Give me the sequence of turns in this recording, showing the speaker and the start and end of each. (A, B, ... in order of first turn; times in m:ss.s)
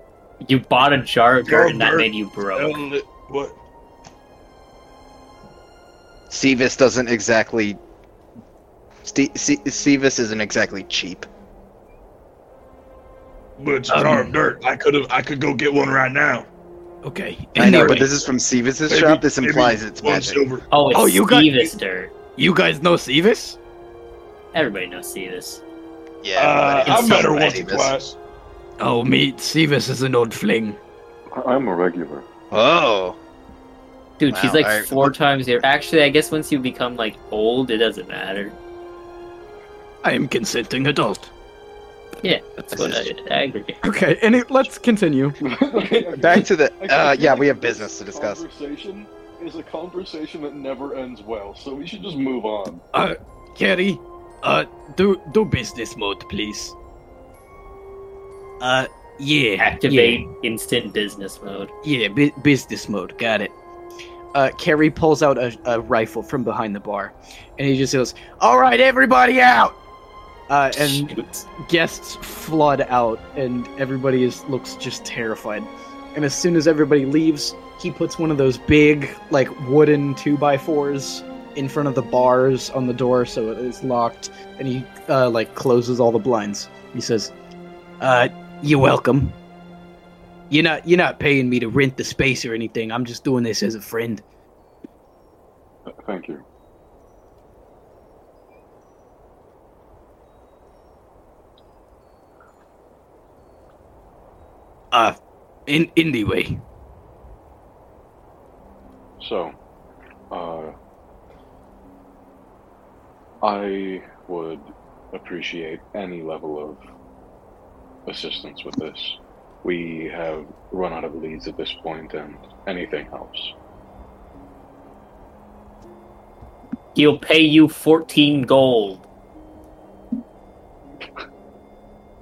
0:00.4-0:02.8 A
0:01.4-0:03.6 B
0:06.3-0:07.8 C
0:09.0-0:11.3 C
0:13.6-0:16.5 B
0:13.9-0:14.4 D
0:17.0-0:18.1 D
0:17.6-0:20.4 C
0:17.6-0:18.0 B
0:18.9-0:20.6 B
0:20.7-0:22.1 A
0:20.9-0:21.7 D
0:22.4-0:23.6 D
0:24.5-0:25.6 A
0:26.2-0:27.9 C
0:26.4-0:28.2 B
0:26.8-0:27.3 A
0:28.8-0:30.8 D
0:31.3-0:32.3 E
0:32.5-0:33.2 C
0:34.2-0:38.6 A
0:34.3-0:35.1 C
0:40.0-0:41.3 D
0:42.2-0:43.8 A
0:42.7-0:43.1 C
0:43.8-0:45.4 D
0:45.4-0:52.8 E
0:46.2-0:48.4 C
0:52.9-0:56.8 D
0:58.6-1:00.3 D
0:59.6-1:01.7 A
1:01.8-1:03.5 D
1:04.3-1:09.8 D
1:10.5-1:27.3 D
1:10.9-1:11.4 A
1:28.0-1:29.4 D
1:30.5-1:34.2 D
1:35.9-1:36.4 E
1:44.9-1:46.6 D
1:49.2-1:49.5 E
1:50.3-1:50.7 E
1:53.4-1:56.8 E
1:58.1-2:03.5 E
2:07.0-2:09.0 A